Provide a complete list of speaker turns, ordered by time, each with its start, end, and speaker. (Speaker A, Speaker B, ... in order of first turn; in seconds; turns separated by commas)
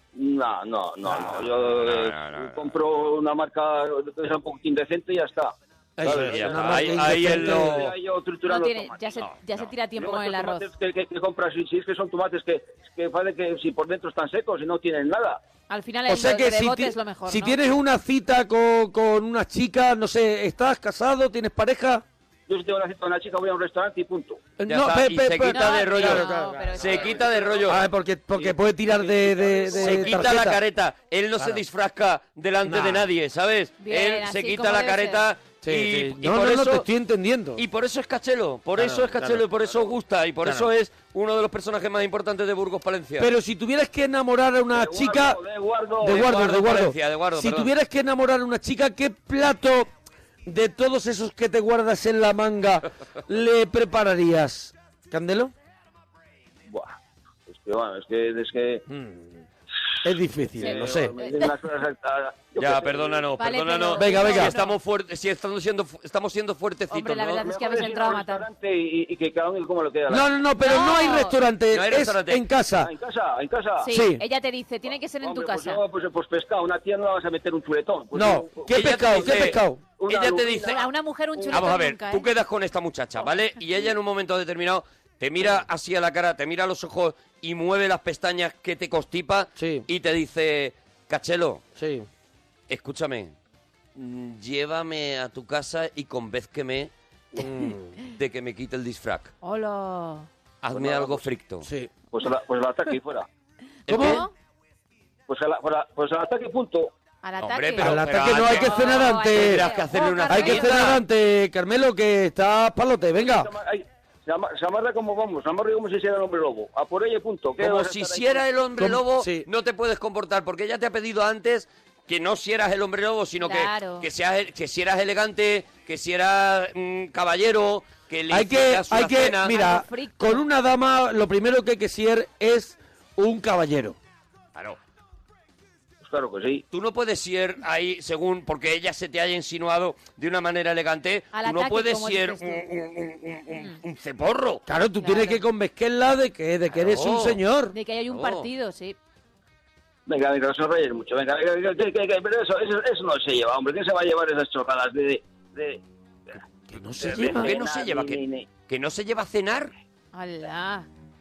Speaker A: 0.1-9.2, Speaker B: 1.1-2.8, Speaker C: 6.0-7.9, Speaker B: 6.0-8.0, Speaker D: 8.5-10.7, Speaker B: 9.2-9.7, Speaker A: 10.0-15.4, Speaker D: 15.7-17.6, Speaker C: 16.1-22.0, Speaker A: 22.5-24.4, Speaker C: 24.6-26.9, Speaker B: 24.6-27.8, Speaker D: 25.5-27.2, Speaker A: 26.8-27.8, Speaker C: 27.6-30.6, Speaker A: 29.1-30.3, Speaker B: 29.7-36.9, Speaker C: 31.4-31.6, Speaker C: 32.6-33.1, Speaker D: 33.8-35.3, Speaker C: 35.6-37.6, Speaker B: 37.6-43.3, Speaker C: 38.8-39.5, Speaker C: 40.4-40.7, Speaker C: 43.2-45.4, Speaker A: 44.7-46.4, Speaker C: 46.0-49.9, Speaker B: 46.0-47.7, Speaker C: 50.5-55.5, Speaker A: 56.7-58.9, Speaker C: 58.9-59.4, Speaker C: 60.0-61.1, Speaker D: 60.6-61.5, Speaker A: 60.6-63.3, Speaker B: 62.6-67.5, Speaker D: 63.4-64.8, Speaker C: 63.9-64.6, Speaker D: 66.9-68.5, Speaker A: 67.4-70.3, Speaker C: 70.1-72.9, Speaker D: 70.6-71.4, Speaker B: 71.7-72.4, Speaker A: 72.8-73.9, Speaker D: 73.8-75.8, Speaker C: 73.9-74.2, Speaker A: 74.9-81.7, Speaker C: 78.1-79.8, Speaker B: 78.7-80.9, Speaker D: 80.7-82.3, Speaker B: 81.5-91.6, Speaker C: 89.6-89.9, Speaker C: 91.8-92.1, Speaker B: 92.7-93.3, Speaker B: 94.0-96.9, Speaker C: 97.4-98.0, Speaker B: 98.1-99.3, Speaker D: 99.4-100.3, Speaker B: 100.6-101.7, Speaker A: 100.7-101.3, Speaker C: 101.6-101.9, Speaker A: 102.1-103.3, Speaker B: 103.9-104.2, Speaker C: 103.9-104.3, Speaker D: 103.9-104.3, Speaker A: 105.3-106.9, Speaker D: 107.2-110.9, Speaker B: 107.4-111.0, Speaker C: 107.8-109.7, Speaker C: 110.3-113.5, Speaker A: 113.2-118.5, Speaker B: 117.6-129.5, Speaker C: 118.8-119.5, Speaker D: 123.4-124.1, Speaker C: 128.3-134.0, Speaker D: 129.4-130.4, Speaker A: 136.0-136.6, Speaker B: 136.7-144.6, Speaker D: 141.3-142.6, Speaker C: 144.7-147.8, Speaker D: 145.0-145.4, Speaker B: 146.7-147.4, Speaker D: 147.7-149.0, Speaker B: 148.1-148.5, Speaker A: 150.1-155.8, Speaker C: 156.7-157.6, Speaker A: 157.0-158.5, Speaker B: 157.2-159.7, Speaker D: 160.1-160.9